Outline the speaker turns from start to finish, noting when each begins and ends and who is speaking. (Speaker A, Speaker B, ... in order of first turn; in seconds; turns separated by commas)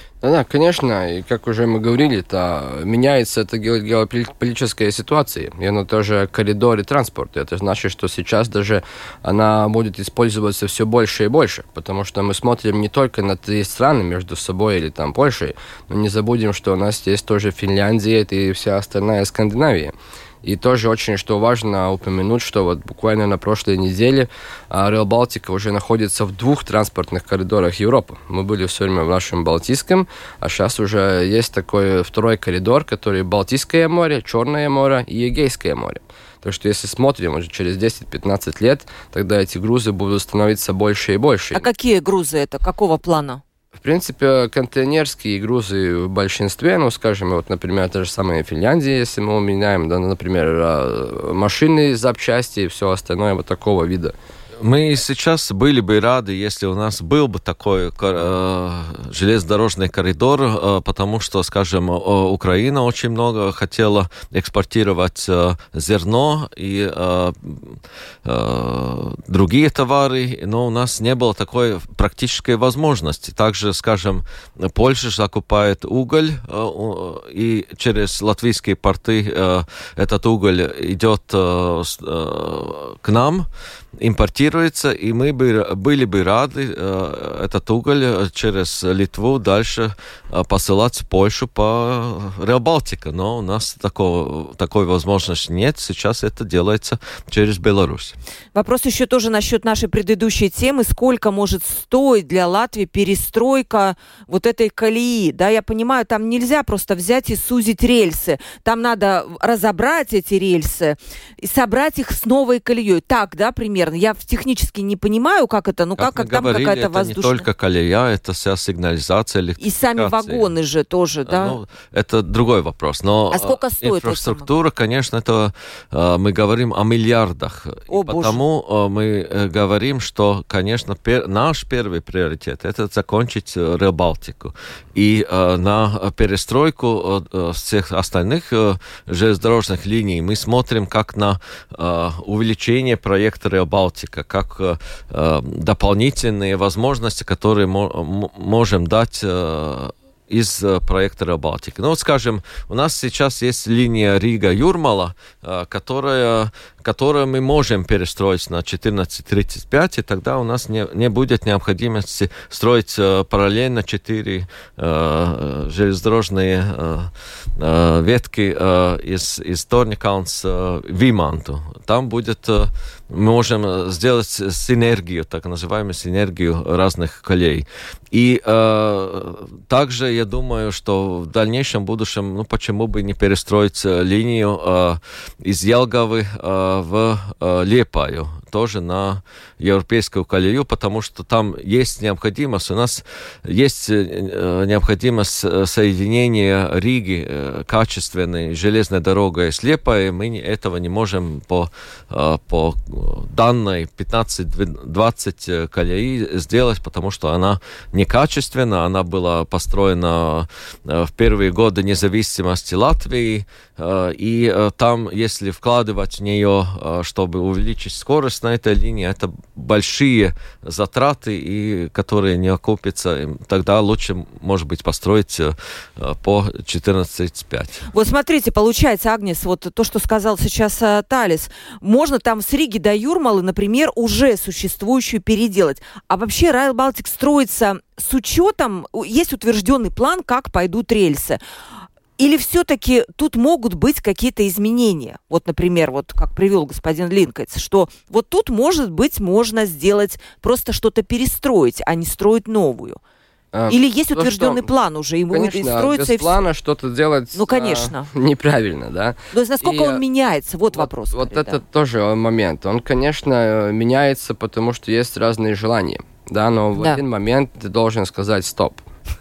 Speaker A: 0.2-41.7, Speaker B: 41.5-43.4, Speaker A: 43.8-54.1, Speaker C: 54.6-83.5, Speaker C: 84.0-98.2, Speaker B: 98.5-117.5, Speaker C: 116.0-120.5, Speaker B: 119.6-121.5, Speaker C: 121.2-227.9, Speaker B: 123.3-124.5, Speaker B: 127.9-128.4, Speaker B: 227.9-241.4, Speaker B: 242.2-253.0, Speaker A: 253.5-254.7, Speaker B: 253.7-256.4, Speaker A: 255.3-260.0, Speaker B: 257.3-258.1, Speaker B: 259.3-261.6, Speaker A: 260.7-268.8, Speaker B: 266.7-267.0